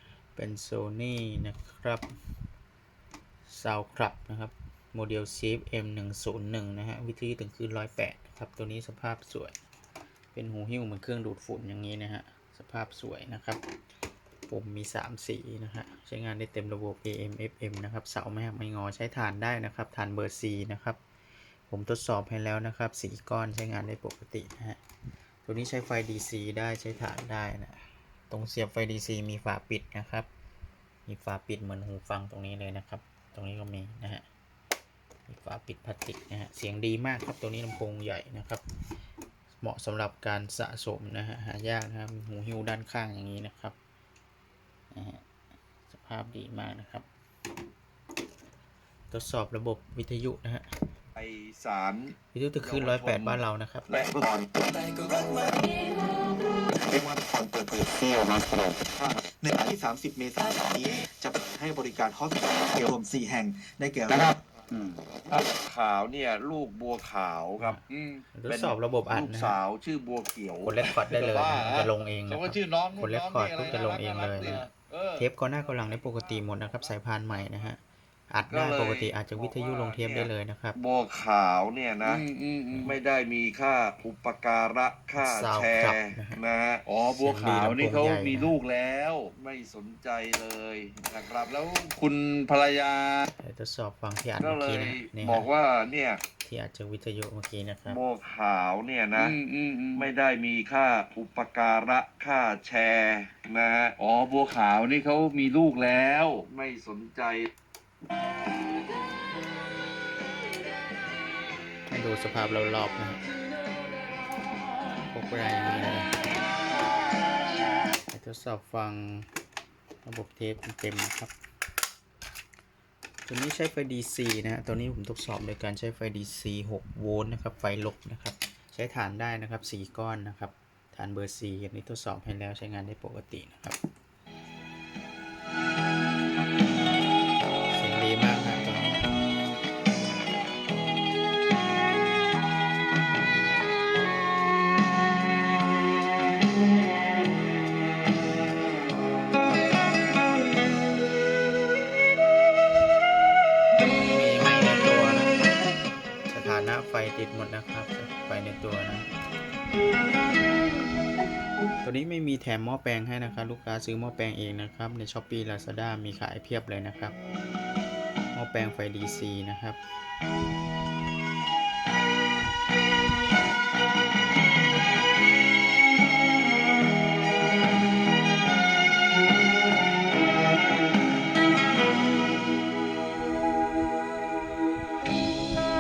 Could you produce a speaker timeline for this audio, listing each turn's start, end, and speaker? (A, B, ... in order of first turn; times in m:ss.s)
0:00.4-0:02.1 A
0:03.5-0:09.6 A
0:10.3-0:13.6 A
0:14.5-0:21.0 A
0:21.7-0:24.8 A
0:25.4-0:27.8 A
0:28.3-0:30.3 A
0:31.1-0:34.2 A
0:35.3-0:38.6 A
0:39.6-0:43.8 A
0:44.9-0:45.2 A
0:45.9-0:47.1 A
0:49.1-0:50.7 A
0:51.2-0:53.4 B
0:52.3-0:54.0 A
0:53.9-0:55.7 C
0:56.7-1:04.4 C
1:05.3-1:07.8 B
1:07.9-1:08.2 D
1:08.4-1:09.6 A
1:08.5-1:11.9 B
1:10.6-1:14.6 A
1:12.3-1:15.3 D
1:14.3-1:14.7 B
1:15.2-1:17.8 A
1:15.8-1:16.2 D
1:18.3-1:20.8 A
1:18.5-1:22.2 B
1:22.0-1:22.9 D
1:22.8-1:26.8 B
1:25.2-1:26.4 A
1:26.9-1:29.3 D
1:27.1-1:28.6 A
1:29.3-1:31.6 B
1:31.5-1:33.3 D
1:33.4-1:35.5 A
1:34.4-1:36.2 B
1:36.4-1:38.0 A
1:37.9-1:39.4 B
1:39.2-1:40.1 D
1:40.0-1:44.0 B
1:44.0-1:46.4 D
1:46.4-1:47.5 B
1:51.9-1:53.2 A
1:55.1-1:56.2 A
1:58.1-1:59.3 A
2:00.0-2:01.3 A
2:03.3-2:13.8 A
2:17.7-2:19.0 A
2:34.0-2:35.4 A
2:36.3-2:39.1 A
2:41.8-2:47.2 A
2:48.3-2:49.8 A